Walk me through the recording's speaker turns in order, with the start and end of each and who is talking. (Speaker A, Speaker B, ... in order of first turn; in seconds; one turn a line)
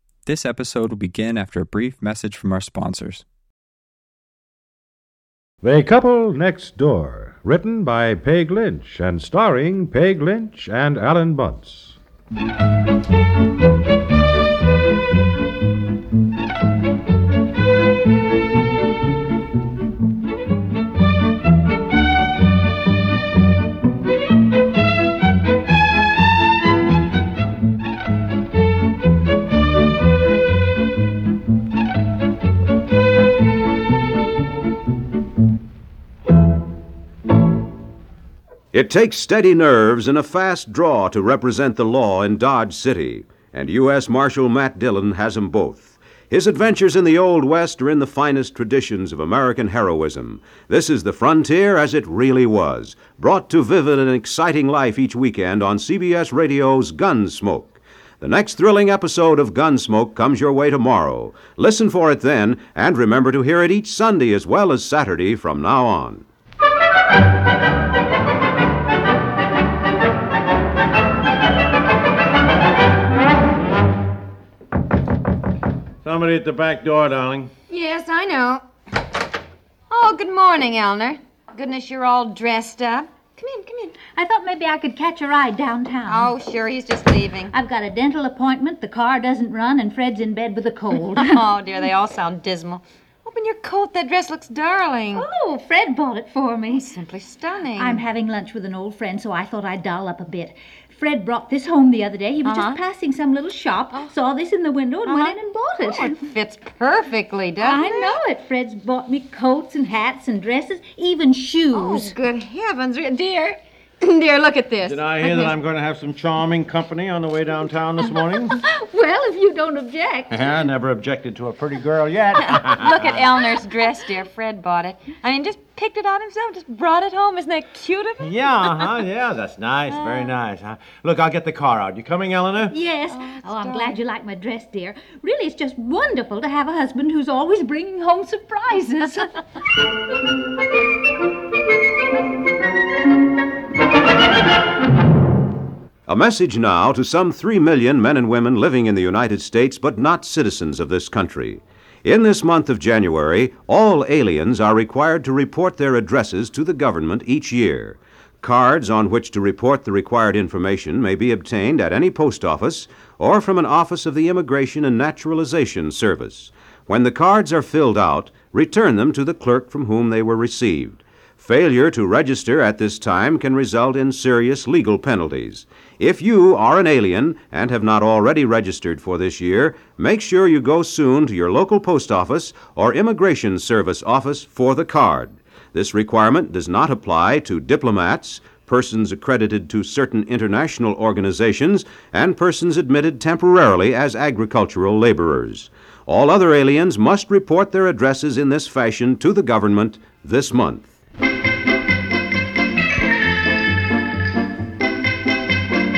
Speaker A: 0.3-3.2
Speaker B: 5.6-12.0
Speaker C: 38.7-66.2
Speaker D: 76.0-77.5
Speaker E: 77.7-78.6
Speaker E: 79.9-84.0
Speaker F: 84.2-86.3
Speaker E: 86.1-87.5
Speaker F: 87.5-91.4
Speaker E: 90.9-95.3
Speaker F: 95.1-96.9
Speaker E: 96.7-98.0
Speaker F: 97.7-106.3
Speaker E: 102.4-102.8
Speaker E: 105.1-108.2
Speaker F: 107.6-112.2
Speaker E: 111.7-115.6
Speaker D: 114.8-118.6
Speaker E: 118.4-120.2
Speaker F: 118.6-120.5
Speaker D: 120.3-123.2
Speaker E: 122.4-129.0
Speaker D: 128.2-132.7
Speaker E: 129.9-130.3
Speaker F: 132.7-139.2
Speaker E: 133.0-134.0
Speaker C: 146.1-200.9